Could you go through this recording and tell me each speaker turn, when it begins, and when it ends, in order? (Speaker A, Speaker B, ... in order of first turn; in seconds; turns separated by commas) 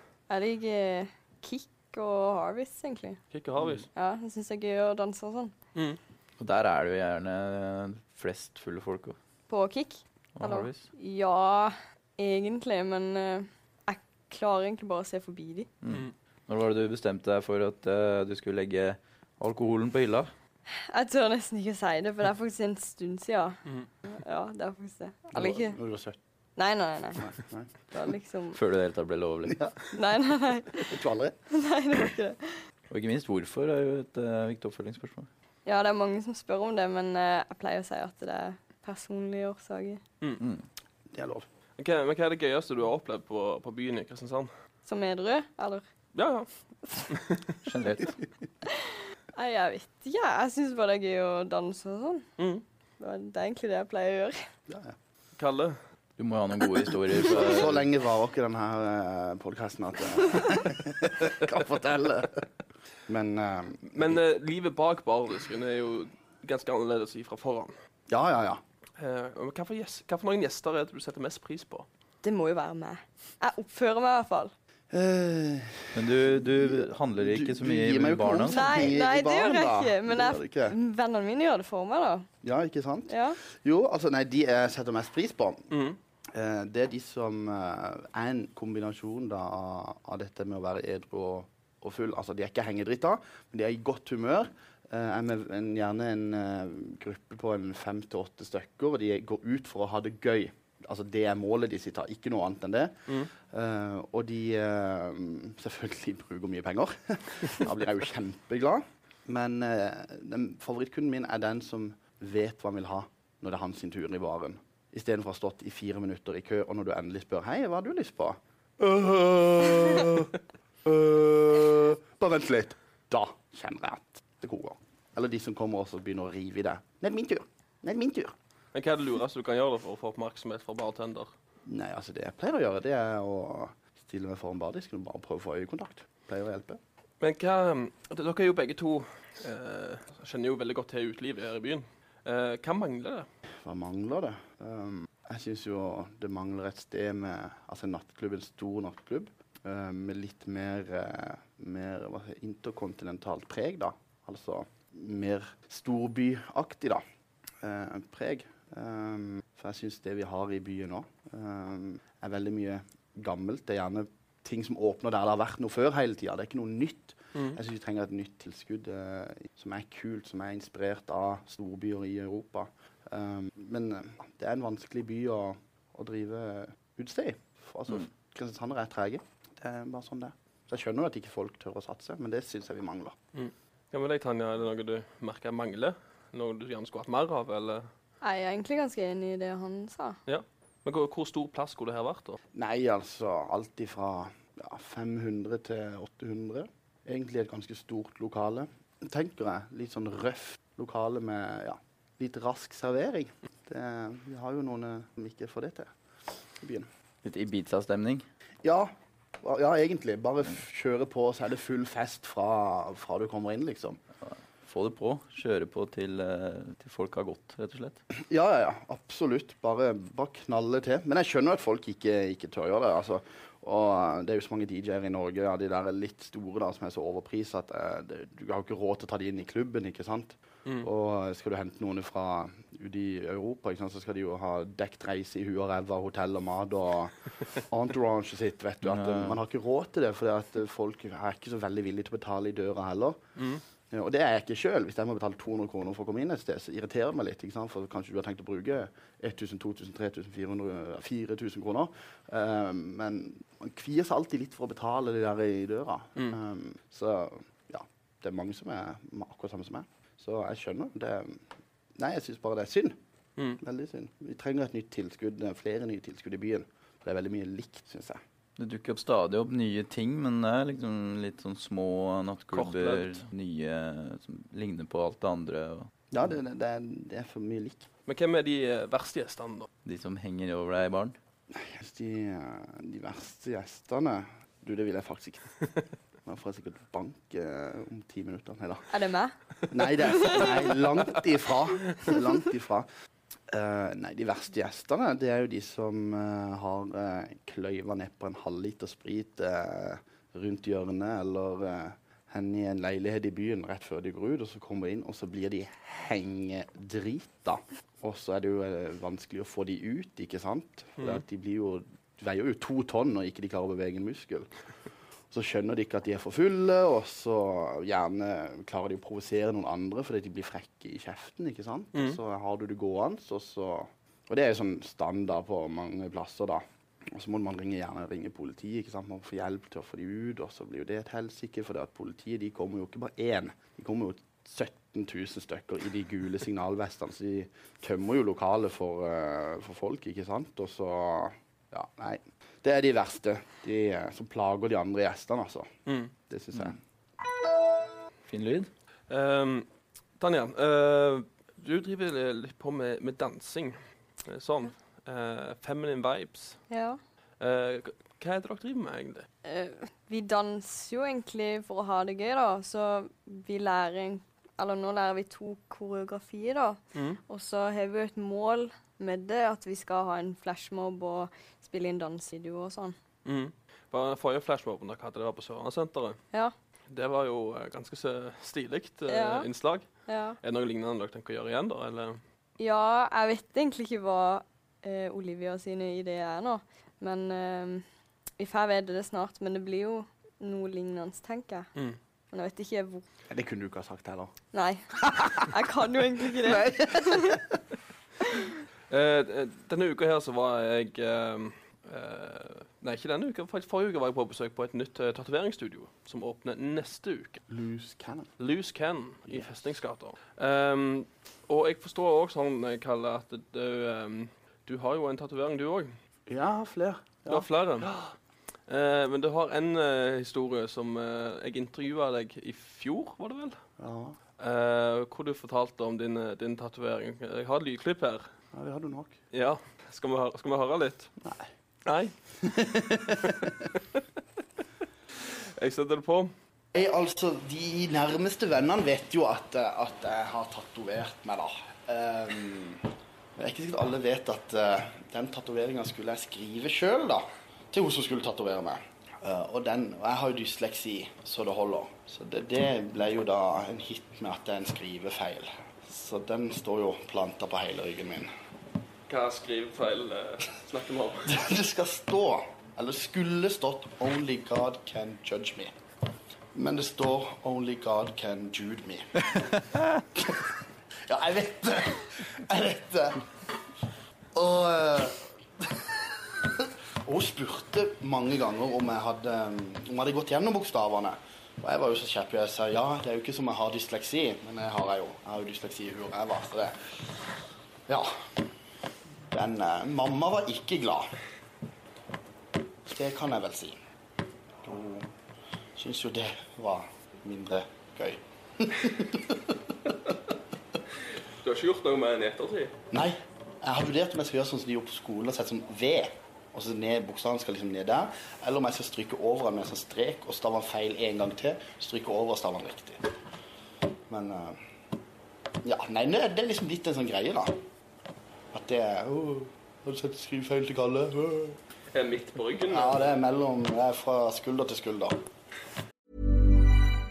Speaker A: 0.3-3.2, Speaker B: 3.3-3.9, Speaker A: 4.0-5.5, Speaker C: 6.4-9.2, Speaker A: 9.5-15.7, Speaker C: 10.4-10.8, Speaker C: 15.8-20.3, Speaker A: 20.9-25.8, Speaker D: 25.3-26.2, Speaker A: 26.6-27.3, Speaker D: 27.2-27.7, Speaker A: 27.9-28.6, Speaker C: 28.5-29.6, Speaker A: 29.9-30.9, Speaker D: 30.8-31.4, Speaker A: 31.5-32.6, Speaker C: 32.9-35.3, Speaker A: 35.7-40.0, Speaker C: 40.4-40.6, Speaker D: 41.1-41.5, Speaker B: 41.8-44.5, Speaker A: 44.9-45.8, Speaker B: 46.1-46.5, Speaker B: 47.0-47.5, Speaker C: 47.6-48.2, Speaker A: 48.7-52.2, Speaker B: 52.4-52.6, Speaker A: 53.0-54.4, Speaker D: 54.7-55.0, Speaker B: 55.4-55.8, Speaker C: 56.2-57.9, Speaker D: 57.2-62.5, Speaker D: 63.1-64.2, Speaker B: 63.9-67.7, Speaker D: 68.1-68.6, Speaker B: 69.0-71.9, Speaker A: 72.2-74.5, Speaker D: 74.9-80.8, Speaker C: 76.0-78.9, Speaker A: 78.5-82.3, Speaker D: 82.4-85.7, Speaker A: 83.1-83.4, Speaker B: 85.7-86.0, Speaker D: 86.3-128.3, Speaker B: 128.7-131.3, Speaker D: 131.7-136.8, Speaker B: 137.2-143.3, Speaker D: 143.6-157.0, Speaker D: 157.6-183.2, Speaker B: 183.3-187.9, Speaker A: 188.2-190.2, Speaker B: 190.3-192.4, Speaker D: 192.6-205.9, Speaker D: 206.6-206.9, Speaker C: 207.2-208.3, Speaker D: 208.6-208.9, Speaker D: 209.4-214.0, Speaker C: 214.3-218.0, Speaker D: 218.2-243.2, Speaker C: 238.8-239.4, Speaker D: 243.9-261.4, Speaker D: 262.0-263.0, Speaker D: 263.6-268.2, Speaker C: 268.6-275.9, Speaker B: 272.5-273.2, Speaker D: 276.1-277.9, Speaker B: 278.1-279.7, Speaker C: 279.9-281.2, Speaker D: 281.5-285.8, Speaker D: 286.3-288.9, Speaker A: 288.9-289.3, Speaker D: 289.7-292.9, Speaker D: 293.5-314.5, Speaker D: 315.3-345.7, Speaker B: 345.9-346.1, Speaker D: 346.3-346.8, Speaker C: 348.3-348.7, Speaker B: 349.1-349.7, Speaker B: 350.2-356.6, Speaker A: 356.7-357.0, Speaker B: 357.4-359.3, Speaker A: 359.4-373.0, Speaker B: 366.9-367.2, Speaker B: 373.2-376.2, Speaker B: 376.9-379.9, Speaker A: 379.1-379.5, Speaker A: 380.1-380.4, Speaker B: 380.4-382.2, Speaker A: 382.6-387.9, Speaker A: 388.4-391.7, Speaker A: 392.3-393.1, Speaker D: 393.3-394.3, Speaker A: 394.5-394.8, Speaker D: 395.0-395.5, Speaker A: 395.4-397.4, Speaker D: 396.3-397.6, Speaker B: 398.9-407.4, Speaker D: 407.5-408.3, Speaker B: 408.4-415.9, Speaker D: 409.3-409.6, Speaker D: 416.3-418.1, Speaker B: 417.3-417.9, Speaker B: 418.7-423.6, Speaker D: 423.8-424.2, Speaker B: 424.4-428.3, Speaker D: 428.5-429.1, Speaker B: 429.3-431.1, Speaker B: 431.9-432.1, Speaker D: 432.4-433.6, Speaker B: 435.6-436.3, Speaker D: 436.7-458.3, Speaker B: 459.1-461.4, Speaker D: 461.3-465.7, Speaker D: 466.6-470.6, Speaker D: 471.1-473.3, Speaker D: 474.4-486.8, Speaker D: 487.9-488.3, Speaker D: 489.3-491.2, Speaker D: 492.9-493.8, Speaker D: 494.6-495.1, Speaker D: 495.8-499.6, Speaker B: 501.4-502.8, Speaker D: 502.9-513.1, Speaker D: 514.1-514.6, Speaker D: 515.6-517.6, Speaker D: 518.5-521.6, Speaker B: 521.9-523.1, Speaker D: 522.6-525.2